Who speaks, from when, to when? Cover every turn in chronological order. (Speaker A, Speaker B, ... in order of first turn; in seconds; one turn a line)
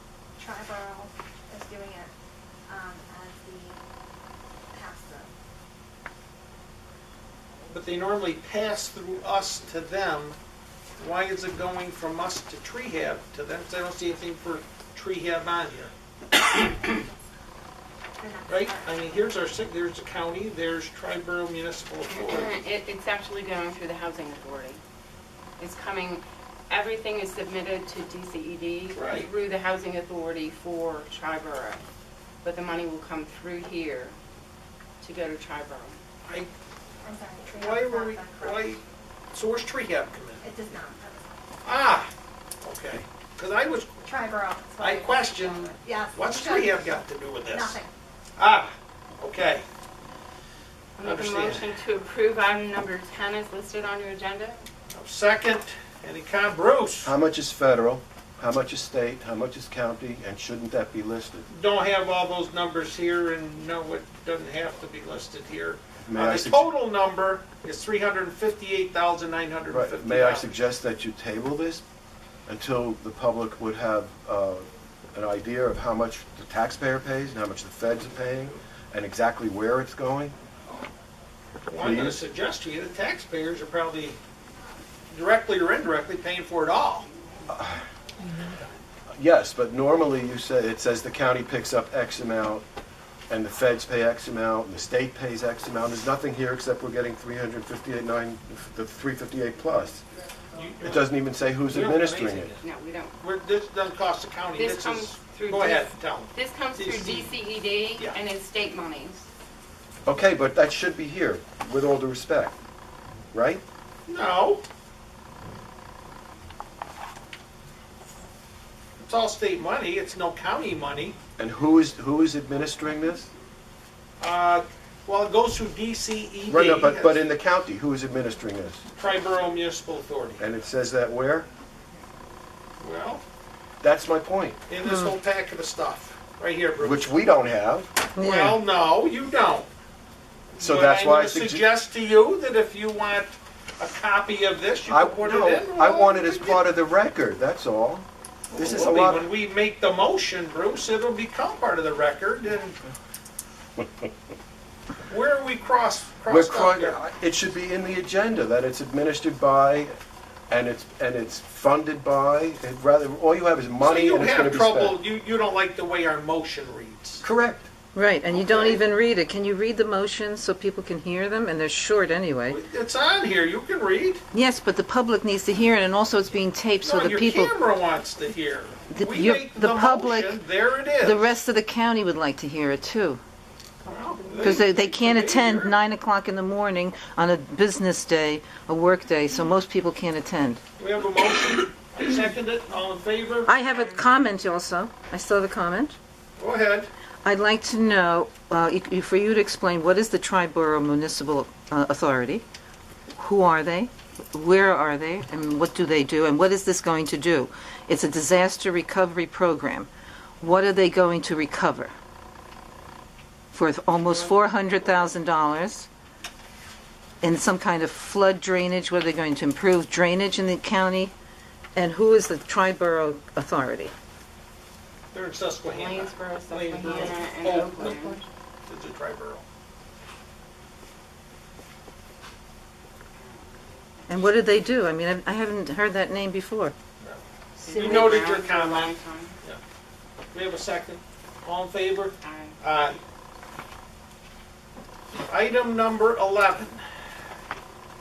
Speaker A: 0.4-2.1
Speaker A: 2.7-3.8
Speaker A: 4.7-5.3
Speaker B: 7.7-10.4
Speaker B: 11.0-15.9
Speaker A: 18.2-19.0
Speaker B: 18.5-22.6
Speaker C: 22.1-24.8
Speaker C: 25.6-31.9
Speaker B: 28.9-29.3
Speaker C: 32.4-34.2
Speaker C: 35.0-36.0
Speaker A: 37.0-38.8
Speaker B: 37.5-38.8
Speaker B: 39.3-40.5
Speaker A: 40.4-41.4
Speaker B: 41.6-42.1
Speaker B: 42.6-44.1
Speaker A: 44.1-46.9
Speaker B: 44.8-47.8
Speaker A: 47.5-47.9
Speaker B: 48.4-49.6
Speaker C: 51.0-54.6
Speaker B: 51.0-51.7
Speaker B: 54.9-57.1
Speaker D: 57.0-61.5
Speaker B: 61.5-70.5
Speaker D: 66.1-66.7
Speaker D: 69.7-71.8
Speaker D: 72.5-80.3
Speaker B: 81.7-84.2
Speaker D: 81.8-82.2
Speaker B: 85.1-87.1
Speaker D: 87.5-87.8
Speaker D: 89.1-92.7
Speaker D: 93.3-100.0
Speaker B: 100.5-101.1
Speaker D: 100.8-102.5
Speaker B: 101.7-102.7
Speaker C: 102.6-103.2
Speaker B: 103.2-107.3
Speaker C: 104.6-109.3
Speaker D: 110.0-112.5
Speaker D: 113.3-113.6
Speaker B: 114.1-114.6
Speaker B: 119.0-121.2
Speaker D: 121.4-123.3
Speaker B: 124.2-127.2
Speaker D: 126.5-128.8
Speaker B: 128.9-130.4
Speaker D: 130.4-131.5
Speaker B: 132.8-133.2
Speaker D: 133.8-134.6
Speaker B: 134.7-137.1
Speaker E: 134.8-135.2
Speaker D: 136.8-137.9
Speaker E: 138.2-138.6
Speaker B: 138.2-139.7
Speaker B: 140.6-146.6
Speaker D: 140.6-141.6
Speaker D: 144.9-149.3
Speaker B: 148.5-152.8
Speaker B: 155.1-157.0
Speaker D: 156.3-159.9
Speaker D: 160.5-165.0
Speaker B: 163.8-167.2
Speaker D: 167.2-167.7
Speaker E: 167.9-172.6
Speaker B: 168.4-168.8
Speaker B: 172.5-174.2
Speaker E: 174.3-177.6
Speaker B: 176.8-181.3
Speaker E: 178.9-180.4
Speaker E: 181.0-183.2
Speaker B: 183.8-185.8
Speaker E: 184.4-190.6
Speaker B: 190.8-193.5
Speaker E: 193.5-196.0
Speaker C: 193.6-194.1
Speaker B: 196.4-196.9
Speaker E: 197.2-202.4
Speaker E: 203.2-209.9
Speaker E: 210.4-211.9
Speaker E: 213.5-215.9
Speaker E: 217.2-221.1
Speaker E: 221.8-223.9
Speaker B: 225.1-228.1
Speaker C: 225.7-228.2
Speaker B: 228.7-229.4
Speaker C: 233.1-234.4
Speaker E: 234.1-236.7
Speaker B: 237.0-239.6
Speaker C: 237.6-239.4
Speaker B: 240.3-243.0
Speaker C: 242.2-242.6
Speaker B: 245.2-246.9